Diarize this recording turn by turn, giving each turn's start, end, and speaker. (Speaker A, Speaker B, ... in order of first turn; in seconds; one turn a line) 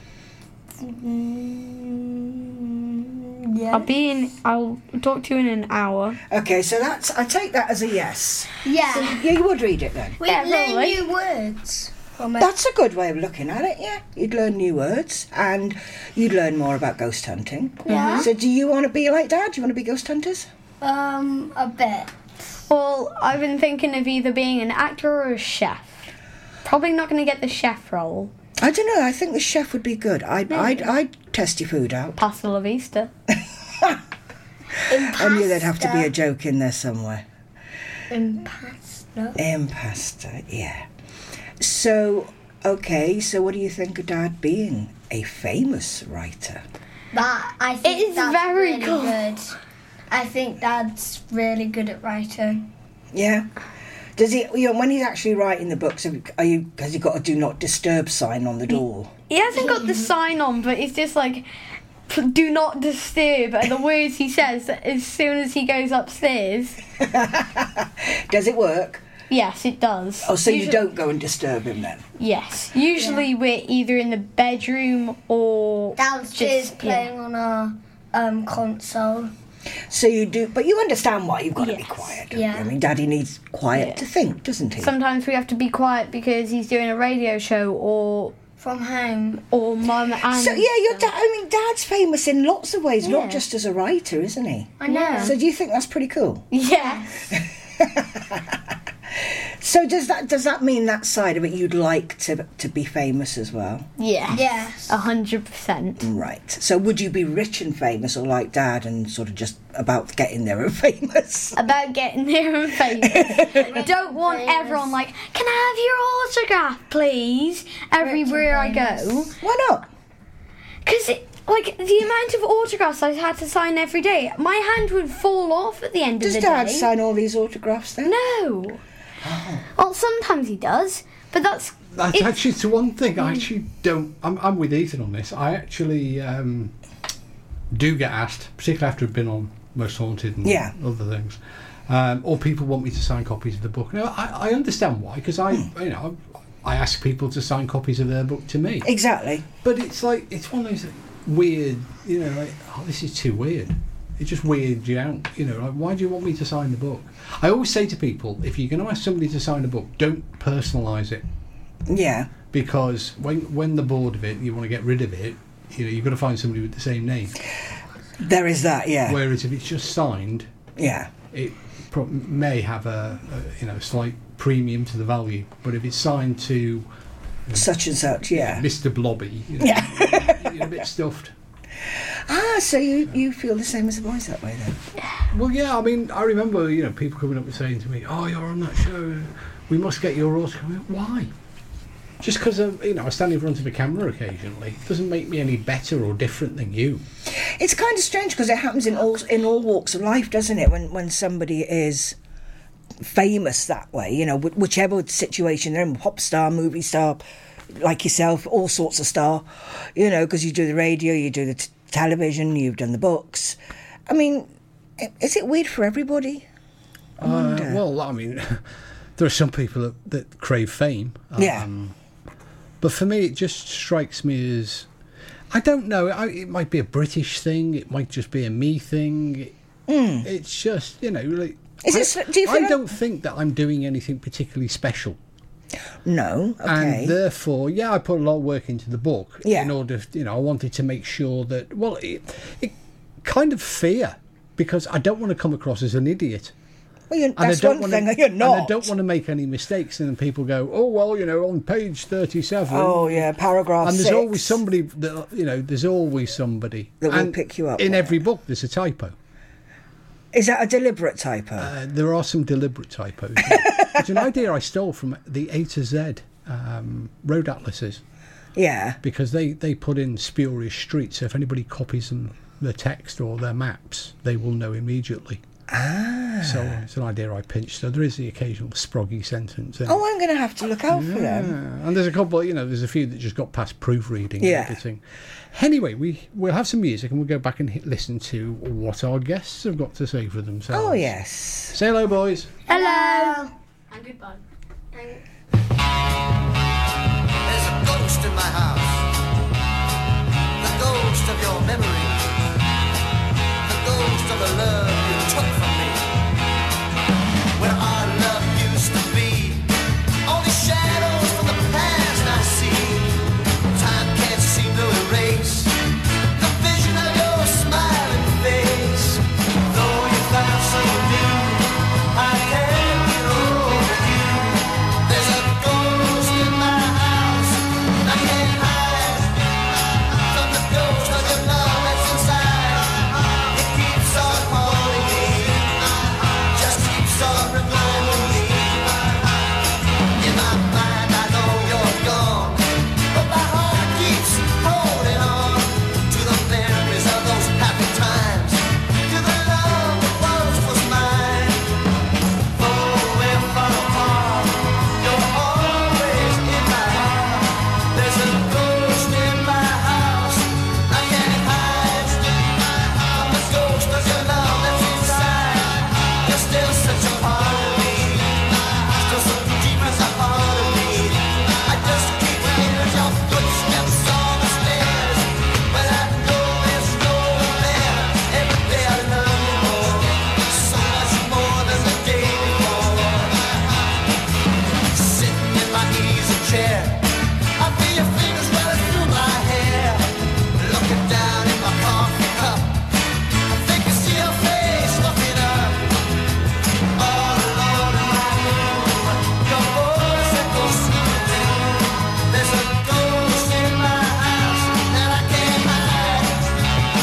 Speaker A: 0.8-3.9
Speaker B: 3.7-6.2
Speaker C: 6.3-10.2
Speaker A: 8.6-9.3
Speaker A: 10.2-12.5
Speaker B: 10.2-11.1
Speaker C: 12.4-20.5
Speaker A: 17.9-18.3
Speaker B: 17.9-18.3
Speaker A: 20.8-22.6
Speaker B: 22.7-25.9
Speaker B: 26.6-28.3
Speaker C: 28.6-32.2
Speaker B: 30.5-30.9
Speaker B: 32.2-33.1
Speaker A: 34.9-36.1
Speaker C: 35.0-37.2
Speaker A: 38.1-39.4
Speaker C: 39.4-40.9
Speaker C: 41.6-46.6
Speaker A: 47.1-49.5
Speaker B: 47.8-49.3
Speaker A: 50.1-52.7
Speaker C: 53.1-53.5
Speaker C: 54.2-59.1
Speaker B: 59.3-61.5
Speaker A: 59.5-60.1
Speaker B: 62.1-66.8
Speaker C: 67.0-69.0
Speaker B: 69.3-70.9
Speaker C: 70.2-72.0
Speaker B: 72.2-77.1
Speaker A: 72.9-73.3
Speaker A: 76.0-79.3
Speaker C: 79.9-84.9
Speaker B: 81.6-82.0
Speaker A: 82.3-82.7
Speaker B: 83.7-84.0
Speaker B: 84.8-88.4
Speaker A: 88.6-89.4
Speaker B: 89.5-91.1
Speaker C: 90.3-96.5
Speaker B: 93.0-93.4
Speaker A: 94.8-95.4
Speaker B: 94.8-95.3
Speaker B: 96.5-97.3
Speaker A: 96.7-97.1
Speaker C: 97.8-98.6
Speaker C: 99.2-103.9
Speaker B: 104.0-106.0
Speaker A: 104.3-104.9
Speaker C: 106.0-111.6
Speaker B: 111.5-119.3
Speaker C: 113.0-113.7
Speaker A: 113.5-114.9
Speaker A: 118.0-119.2
Speaker C: 119.4-119.9
Speaker B: 120.8-126.9
Speaker C: 126.2-128.2
Speaker B: 128.0-128.8
Speaker C: 129.2-129.7
Speaker B: 129.8-132.4
Speaker D: 131.9-136.7
Speaker D: 137.7-148.9
Speaker C: 140.4-140.7
Speaker C: 148.8-149.4
Speaker D: 149.6-161.2
Speaker C: 161.9-162.3
Speaker D: 162.5-167.4
Speaker C: 168.2-169.2
Speaker D: 169.1-170.5
Speaker C: 170.8-171.1
Speaker D: 171.3-176.9
Speaker C: 177.5-178.6
Speaker D: 178.3-181.3
Speaker C: 179.6-180.7
Speaker C: 182.3-184.8
Speaker D: 185.3-191.3
Speaker D: 192.2-197.0
Speaker C: 197.3-202.2
Speaker C: 203.0-207.2
Speaker C: 207.7-213.6
Speaker C: 214.1-216.4
Speaker C: 217.2-217.8
Speaker D: 217.2-221.9
Speaker C: 221.4-221.7
Speaker D: 222.8-224.9
Speaker D: 225.5-229.5
Speaker C: 229.9-230.3
Speaker D: 230.2-235.2
Speaker C: 231.8-232.9
Speaker C: 236.1-237.2
Speaker D: 236.6-246.5
Speaker C: 239.4-239.7
Speaker C: 247.1-248.9
Speaker D: 247.4-253.3
Speaker C: 252.7-254.6
Speaker D: 253.8-259.1
Speaker C: 257.0-258.2
Speaker C: 260.3-261.7
Speaker D: 261.6-268.0
Speaker C: 263.5-264.0
Speaker C: 268.6-269.0
Speaker D: 269.0-275.4
Speaker C: 275.7-276.8
Speaker D: 276.4-280.0
Speaker C: 279.9-281.6
Speaker D: 280.9-291.1
Speaker C: 284.4-284.8
Speaker C: 290.7-291.8
Speaker D: 291.7-292.6
Speaker A: 292.7-293.5
Speaker B: 292.7-293.4
Speaker B: 293.9-294.4
Speaker A: 294.9-295.2
Speaker E: 297.4-299.1
Speaker E: 300.6-302.3
Speaker E: 303.6-306.1
Speaker E: 307.6-309.7
Speaker E: 310.2-315.8
Speaker E: 316.4-329.6
Speaker E: 330.1-339.4
Speaker E: 340.1-351.7
Speaker E: 352.5-383.9
Speaker E: 384.9-392.9
Speaker E: 393.5-396.0
Speaker E: 396.9-406.5